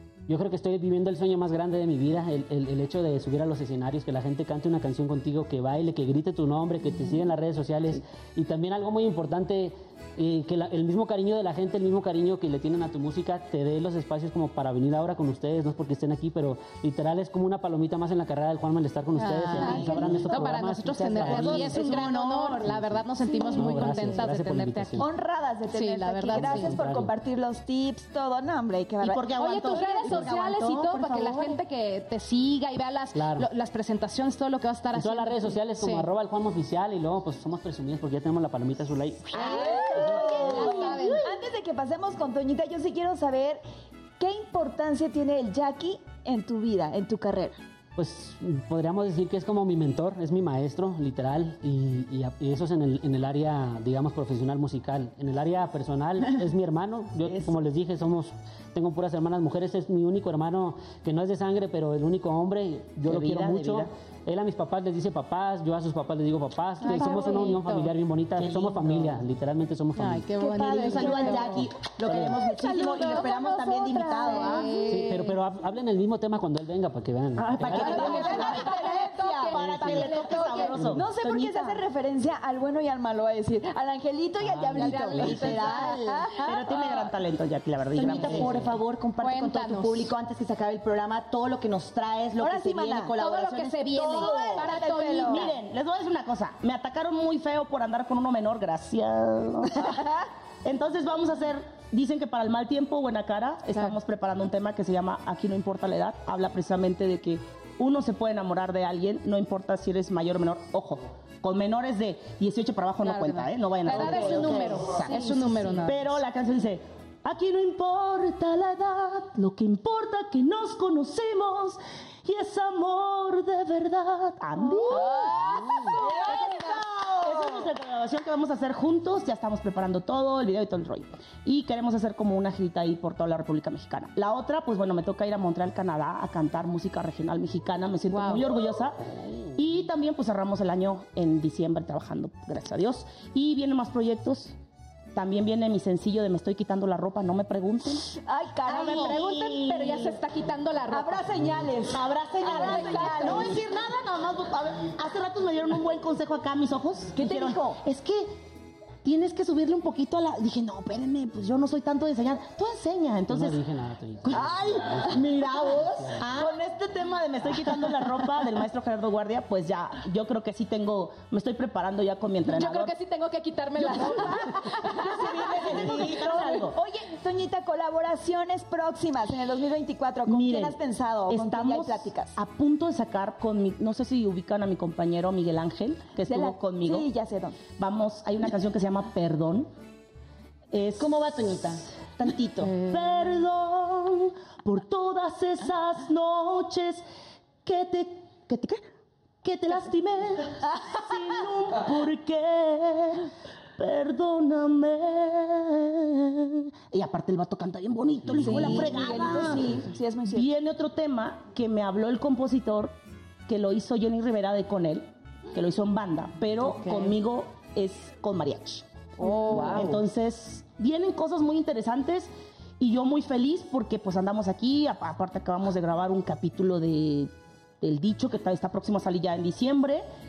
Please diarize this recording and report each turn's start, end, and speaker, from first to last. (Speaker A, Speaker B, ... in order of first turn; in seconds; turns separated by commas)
Speaker A: 0.3-22.1, Speaker B: 19.2-25.1, Speaker C: 19.6-20.4, Speaker D: 19.6-20.4, Speaker E: 21.1-22.2, Speaker C: 21.2-22.6, Speaker A: 22.6-25.1, Speaker D: 23.2-24.2, Speaker D: 25.0-29.3, Speaker B: 25.7-26.8, Speaker A: 26.3-27.1, Speaker C: 29.0-31.6, Speaker B: 29.4-36.1, Speaker E: 29.4-30.4, Speaker A: 33.1-33.5, Speaker A: 34.9-40.7, Speaker D: 39.3-43.6, Speaker B: 39.3-41.2, Speaker E: 40.1-41.3, Speaker D: 44.2-47.6, Speaker A: 48.0-70.3, Speaker E: 63.0-63.9, Speaker B: 66.8-67.9, Speaker E: 68.4-69.1, Speaker B: 70.0-71.6, Speaker C: 70.4-74.7, Speaker D: 70.5-71.6, Speaker A: 72.0-72.4, Speaker D: 72.2-75.0, Speaker B: 72.8-73.1, Speaker B: 74.2-75.3, Speaker A: 74.9-78.1, Speaker E: 77.4-78.5, Speaker C: 77.5-81.8, Speaker D: 77.6-86.9, Speaker B: 77.7-80.9, Speaker E: 79.5-81.0, Speaker A: 84.4-85.5, Speaker E: 84.8-85.8, Speaker C: 84.8-86.3, Speaker B: 84.9-86.5, Speaker E: 86.4-88.7, Speaker C: 87.9-94.7, Speaker B: 89.2-90.1, Speaker D: 92.4-93.1, Speaker B: 93.1-95.5, Speaker D: 94.0-95.5, Speaker E: 94.2-94.6, Speaker E: 95.2-100.1, Speaker D: 99.8-100.2, Speaker E: 100.6-144.5, Speaker B: 113.0-116.0, Speaker D: 124.8-127.2, Speaker B: 124.9-126.8, Speaker B: 138.1-138.4, Speaker E: 145.1-148.2, Speaker D: 148.2-149.2, Speaker B: 148.7-151.3, Speaker E: 148.7-150.2, Speaker D: 150.9-153.6, Speaker E: 151.9-158.3, Speaker B: 152.4-153.6, Speaker C: 152.5-153.3, Speaker D: 157.2-157.8, Speaker E: 159.0-163.6, Speaker A: 163.3-166.2, Speaker E: 164.2-172.9, Speaker C: 165.0-166.7, Speaker B: 172.4-175.1, Speaker E: 173.8-176.7, Speaker D: 173.8-182.4, Speaker C: 175.2-176.7, Speaker E: 180.3-187.1, Speaker D: 186.2-187.6, Speaker E: 187.8-189.7, Speaker E: 190.7-197.0, Speaker C: 191.0-192.7, Speaker E: 197.6-198.8, Speaker E: 199.4-212.9, Speaker A: 208.2-208.9, Speaker D: 208.3-210.5, Speaker E: 213.5-230.1, Speaker B: 219.2-219.9, Speaker D: 219.2-219.9